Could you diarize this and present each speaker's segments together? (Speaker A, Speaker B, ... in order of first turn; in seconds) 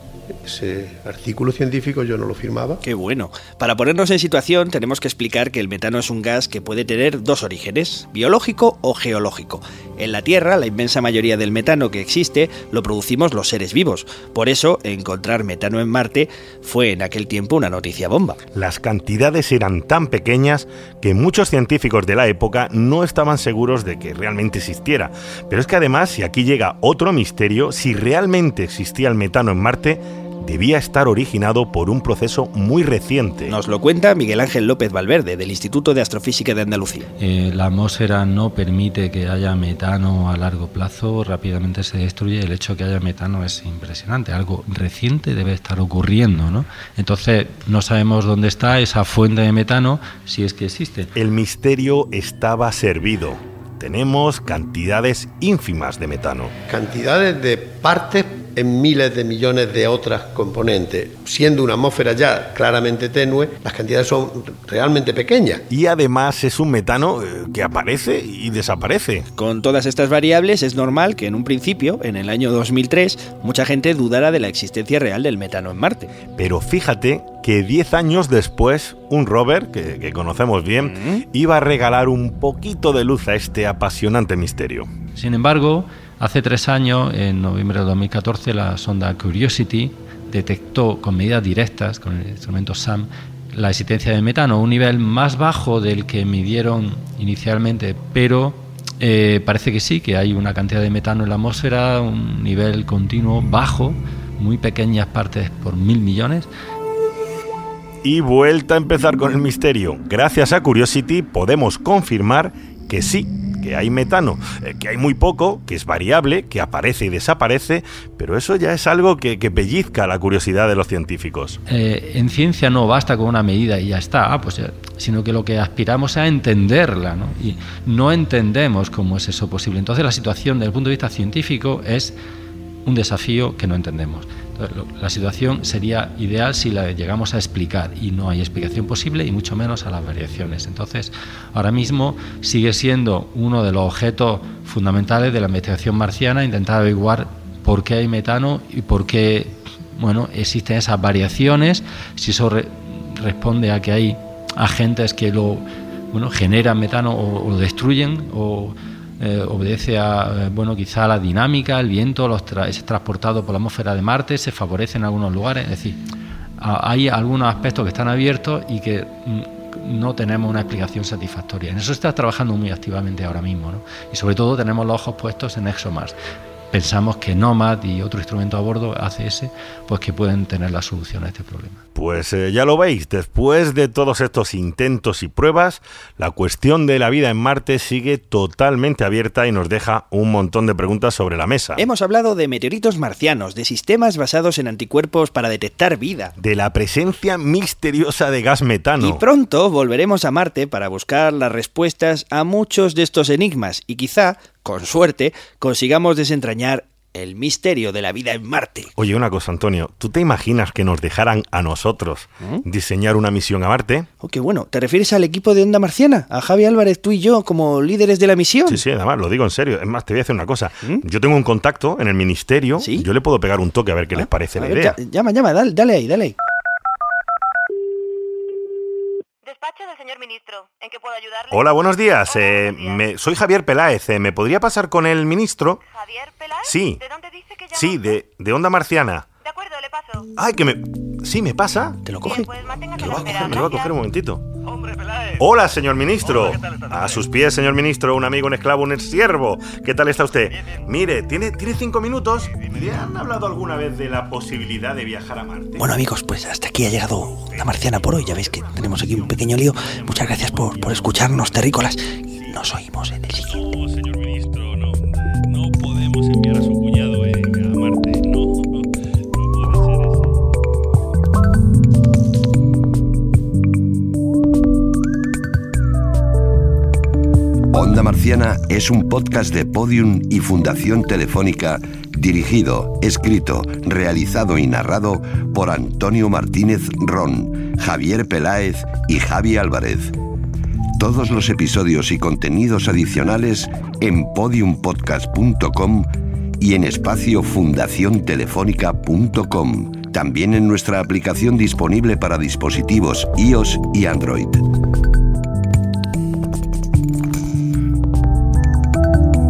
Speaker A: 0.4-2.8, 56.7-65.6
Speaker B: 2.8-18.4, 33.5-37.1, 69.4-76.1, 80.8-81.2, 191.8-196.3, 199.0-208.9, 214.2-218.8, 222.8-223.1, 224.1-226.4, 242.0-243.6, 255.8-263.6
Speaker C: 18.6-33.6, 51.1-56.5, 65.7-69.3, 76.3-84.9, 108.0-121.6, 181.9-191.8, 196.4-199.2, 209.0-214.1, 218.7-225.0, 231.5-235.8, 236.6-237.0, 237.7-239.3, 240.4-242.0, 243.0-244.4, 245.4-255.9, 257.4-261.7, 262.3-262.6, 263.5-270.4
Speaker D: 37.2-51.1, 85.2-106.5, 121.7-132.2, 132.8-166.0, 166.6-176.2, 176.7-181.8
Speaker E: 229.4-233.0, 235.8-238.2, 239.4-240.3, 242.2-243.9, 244.8-245.3
Speaker F: 277.7-290.1, 291.0-296.1, 296.6-304.6